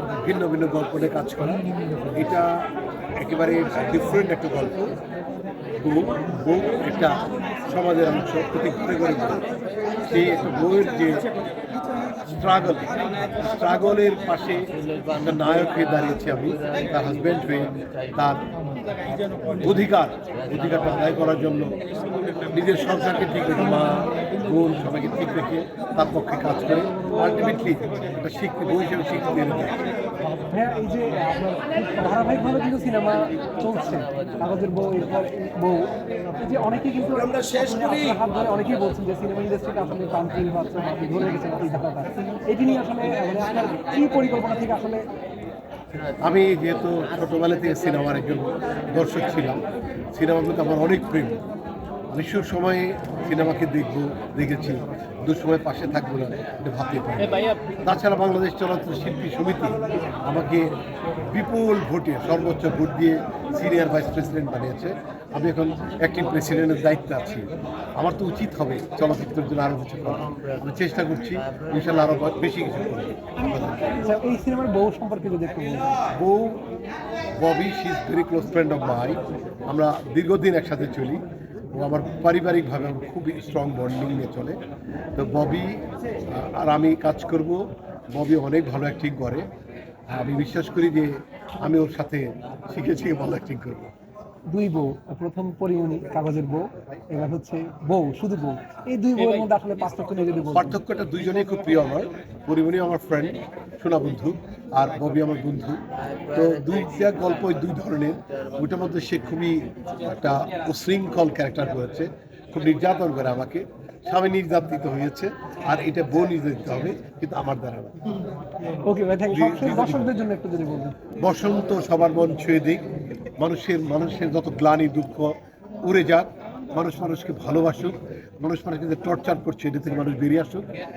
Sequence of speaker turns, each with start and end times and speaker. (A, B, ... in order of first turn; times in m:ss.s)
0:00.2-0:05.0 A
0:05.8-0:09.4 A
0:10.0-0:11.3 A
0:12.3-0:18.5 A
0:19.5-0:21.8 A
0:22.5-0:29.7 A
0:30.5-0:45.1 B
0:46.2-0:51.4 A
0:52.1-1:13.8 A
1:14.0-1:16.0 B
1:16.1-1:16.6 A
1:17.4-1:24.6 A
1:25.1-1:29.5 A
1:30.1-1:33.9 A
1:34.5-1:40.8 B
1:40.5-1:58.0 A
1:58.8-2:00.9 B
1:59.3-2:00.1 A
2:01.2-2:10.7 A